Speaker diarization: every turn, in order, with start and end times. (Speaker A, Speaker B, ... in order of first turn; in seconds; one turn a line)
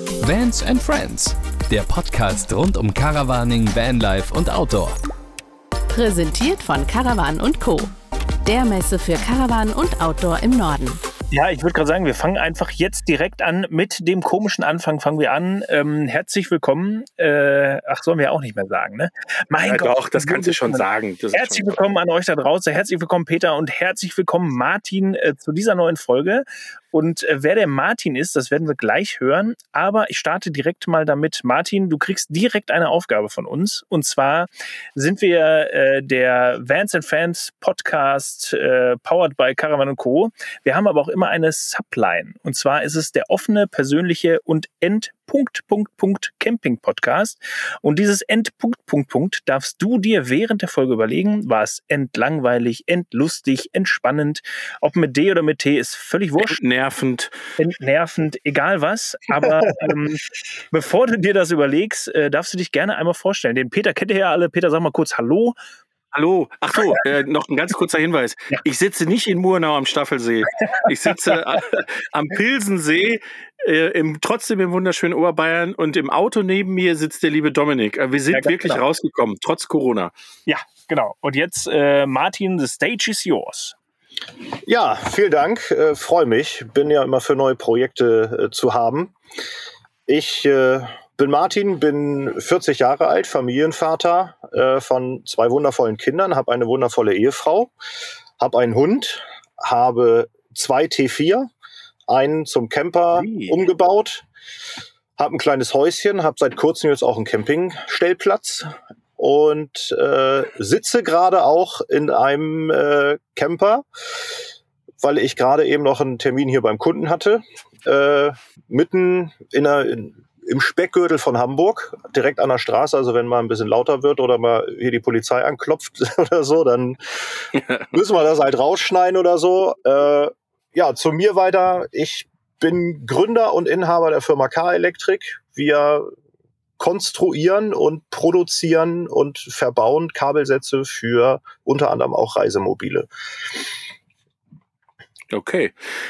Speaker A: 0.2-5.0
Speaker B: 5.9-7.9
Speaker B: 8.4-11.0
Speaker C: 11.3-56.6
Speaker D: 19.6-21.8
Speaker D: 56.4-57.4
Speaker C: 57.6-65.5
Speaker D: 66.1-80.1
Speaker C: 78.3-78.8
Speaker C: 80.5-83.7
Speaker E: 84.7-89.1
Speaker E: 90.1-97.7
Speaker E: 98.4-101.5
Speaker E: 102.1-104.2
Speaker E: 105.2-113.8
Speaker E: 115.0-127.0
Speaker D: 127.5-127.9
Speaker E: 127.9-136.1
Speaker E: 136.8-143.1
Speaker D: 145.3-145.7